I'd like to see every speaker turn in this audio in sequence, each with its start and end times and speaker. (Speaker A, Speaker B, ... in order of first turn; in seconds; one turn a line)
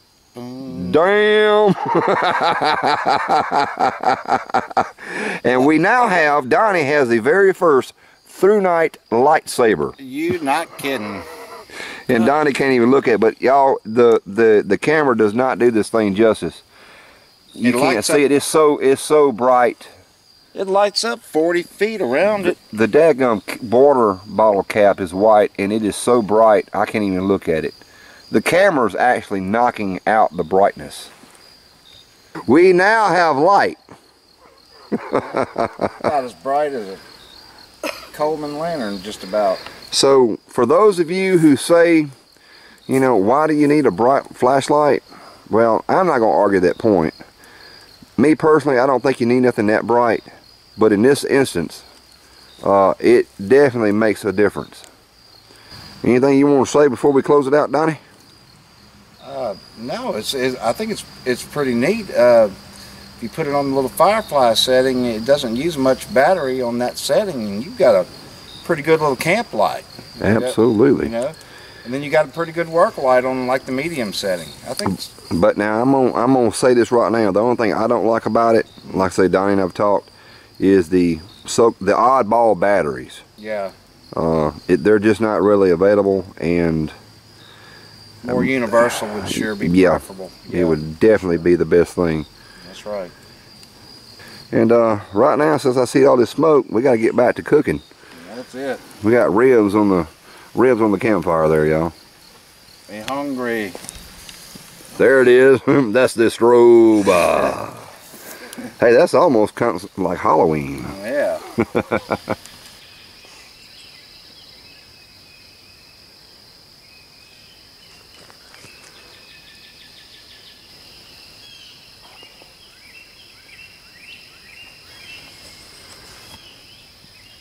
Speaker A: 0.3-1.1
Speaker B: 0.7-10.0
Speaker A: 10.0-11.2
Speaker B: 12.1-16.6
Speaker B: 17.6-19.9
Speaker A: 17.6-18.3
Speaker A: 20.5-22.6
Speaker B: 22.4-27.8
Speaker B: 28.3-31.1
Speaker B: 32.5-33.8
Speaker B: 34.9-35.9
Speaker A: 35.9-37.0
Speaker A: 38.1-39.6
Speaker B: 39.9-42.1
Speaker B: 42.9-47.1
Speaker B: 48.2-50.2
Speaker B: 50.8-51.9
Speaker B: 52.6-54.9
Speaker B: 56.0-58.0
Speaker A: 59.2-62.5
Speaker A: 63.2-68.1
Speaker A: 68.6-75.1
Speaker B: 70.2-71.1
Speaker B: 75.3-83.2
Speaker A: 83.4-83.7
Speaker B: 84.2-87.0
Speaker A: 88.2-90.8
Speaker B: 88.3-92.3
Speaker A: 92.6-93.1
Speaker B: 94.5-97.8
Speaker A: 98.2-98.8
Speaker B: 99.0-101.9
Speaker A: 102.9-103.8
Speaker B: 105.0-107.9
Speaker B: 108.7-110.9
Speaker A: 110.8-111.5
Speaker B: 111.6-112.2